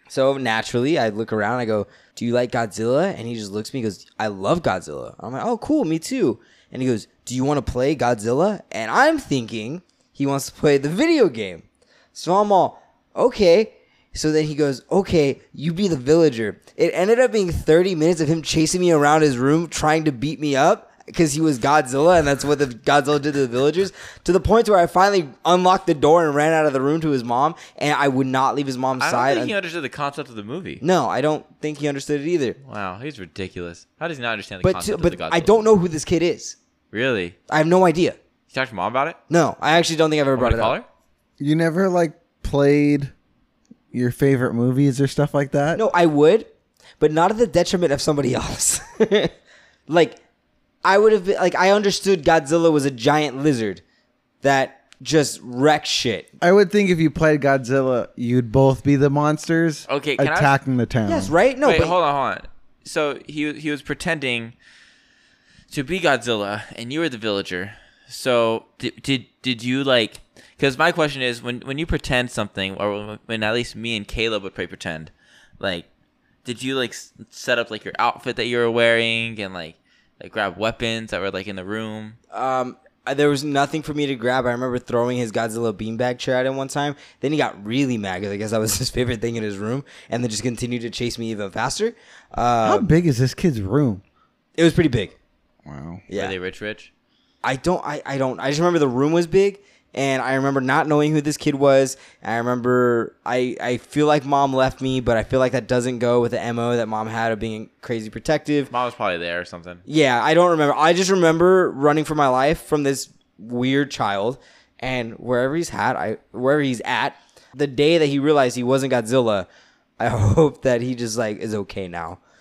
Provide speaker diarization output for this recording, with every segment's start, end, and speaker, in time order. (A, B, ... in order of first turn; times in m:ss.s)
0:00.1-0:29.5 A
0:29.0-0:30.8 B
0:30.8-0:32.6 A
0:32.6-0:35.7 B
0:34.6-0:36.6 A
0:36.9-0:37.4 B
0:37.5-0:38.2 A
0:38.5-0:39.2 B
0:39.3-0:40.8 A
0:40.3-0:40.8 B
0:41.4-0:43.1 C
0:43.9-0:45.8 C
0:45.7-0:49.3 A
0:49.9-0:50.2 A
0:50.8-0:53.8 A
0:54.4-0:56.3 A
0:56.4-1:01.3 C
0:59.9-1:00.5 B
1:01.0-1:01.9 A
1:01.6-1:04.5 B
1:05.7-1:15.8 B
1:16.4-1:22.2 B
1:22.3-1:32.9 A
1:32.6-1:34.0 C
1:34.6-1:35.1 A
1:35.6-1:36.0 C
1:36.1-1:36.3 A
1:36.1-1:36.9 B
1:37.4-1:48.7 A
1:48.7-1:49.8 B
1:49.8-1:59.5 A
2:00.0-2:02.2 A